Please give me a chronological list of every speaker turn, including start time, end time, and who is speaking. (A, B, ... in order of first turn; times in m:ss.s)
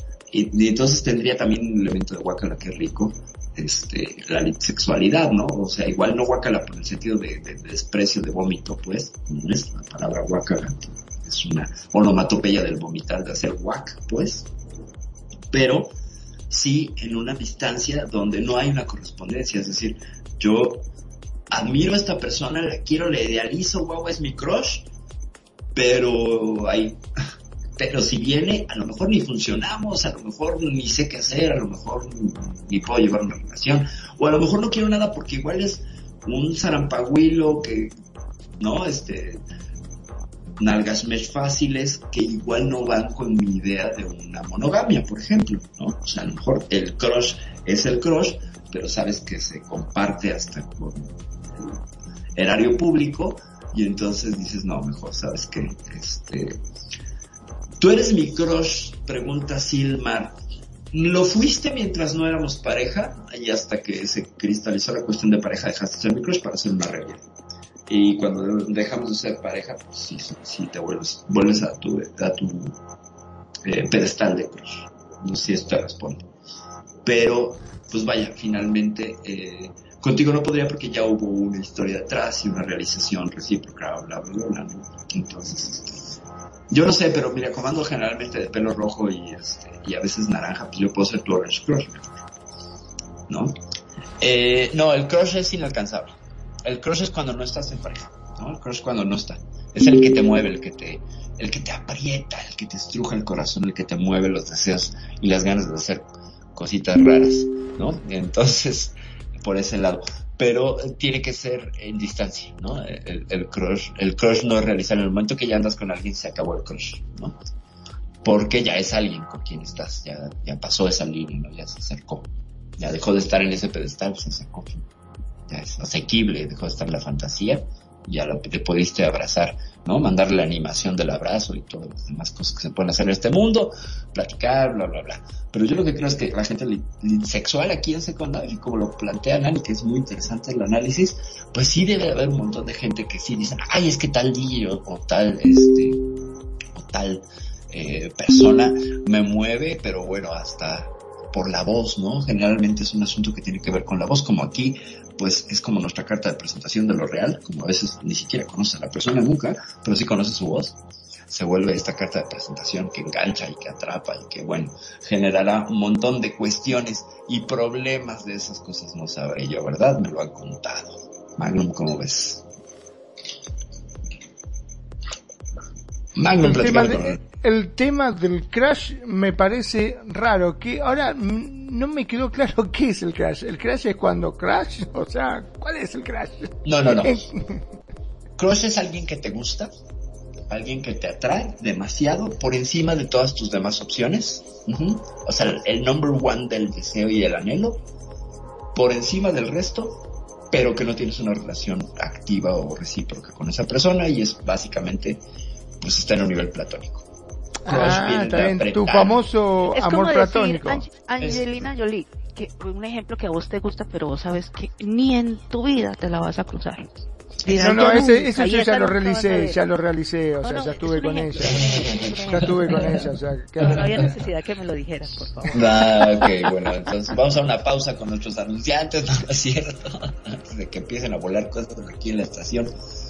0:00.3-0:14.5 A
0:15.5-0:15.9 A
0:16.5-0:20.8 A
0:21.5-0:24.9 A
0:25.7-0:27.0 A
0:27.8-0:37.9 A
0:38.6-0:39.4 A
0:40.6-0:51.8 A
0:52.4-0:56.6 A
0:57.8-1:00.4 A
1:00.9-1:07.2 A
1:07.9-1:12.8 A
1:13.6-1:16.3 A
1:17.0-1:32.1 A
1:33.3-1:33.6 A
1:34.2-1:57.4 A
1:58.2-2:04.9 A
2:05.5-2:26.0 A
2:26.7-2:52.4 A
2:56.2-2:57.2 A
2:56.4-3:07.6 B
3:06.6-3:07.2 A
3:08.4-3:09.7 A
3:10.5-3:17.8 A
3:18.7-3:25.2 A
3:25.8-3:27.0 A
3:27.6-3:30.8 B
3:27.6-3:29.3 A
3:29.7-3:36.9 C
3:31.2-3:31.6 A
3:37.4-3:39.6 C
3:37.6-3:44.2 B
3:40.4-3:43.0 C
3:41.4-3:43.1 A
3:43.6-3:46.3 C
3:45.5-3:52.7 A